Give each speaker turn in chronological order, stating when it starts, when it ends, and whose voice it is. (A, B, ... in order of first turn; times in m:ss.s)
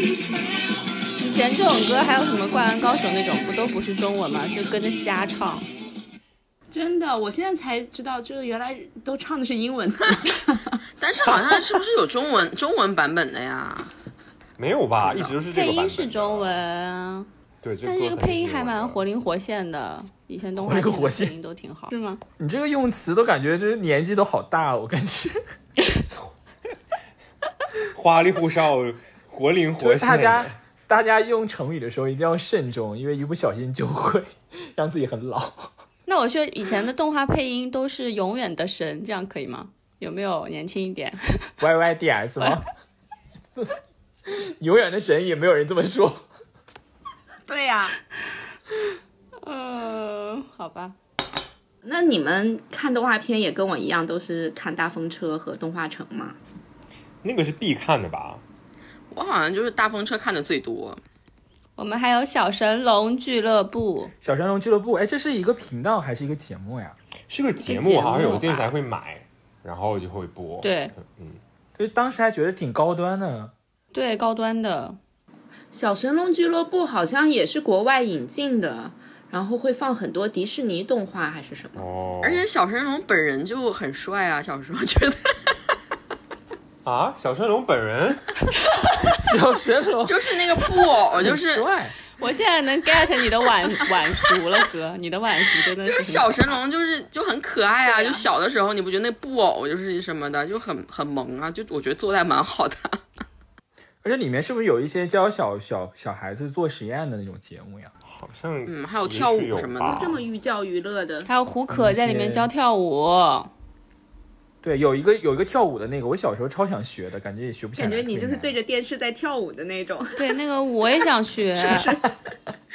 0:01.2-0:05.7 A
0:06.7-0:10.8 B
0:11.0-0:13.9 C
0:14.6-0:16.6 D
0:15.5-0:17.3 A
0:17.6-0:19.0 D
0:17.8-0:22.2 A
0:20.6-0:21.3 E
0:22.4-0:25.4 E
0:27.9-0:30.5 D
0:29.8-0:35.7 E
0:36.1-0:41.5 A
0:41.6-0:42.7 E
0:44.3-0:46.2 E
0:47.5-0:48.0 B
0:49.4-0:51.0 A
0:51.8-0:56.4 B
0:57.2-0:58.4 D
0:59.1-1:01.0 C
1:01.8-1:04.1 A
1:04.2-1:07.0 E
1:07.3-1:11.4 D
1:07.6-1:08.7 A
1:10.6-1:10.9 A
1:11.8-1:13.5 E
1:13.9-1:15.0 A
1:15.7-1:21.8 B
1:21.8-1:22.5 D
1:22.2-1:25.5 C
1:26.8-1:28.3 D
1:29.1-1:30.4 E
1:30.1-1:31.7 C
1:31.1-1:32.0 E
1:32.2-1:36.6 A
1:35.8-1:43.0 C
1:37.8-1:38.2 A
1:44.0-1:47.9 E
1:48.1-1:50.2 D
1:48.7-1:50.1 C
1:49.9-1:51.3 B
1:51.3-1:53.5 A
1:51.7-1:52.5 E
1:54.6-1:58.6 E
1:57.8-2:00.3 B
2:00.2-2:01.9 A
2:01.6-2:02.0 B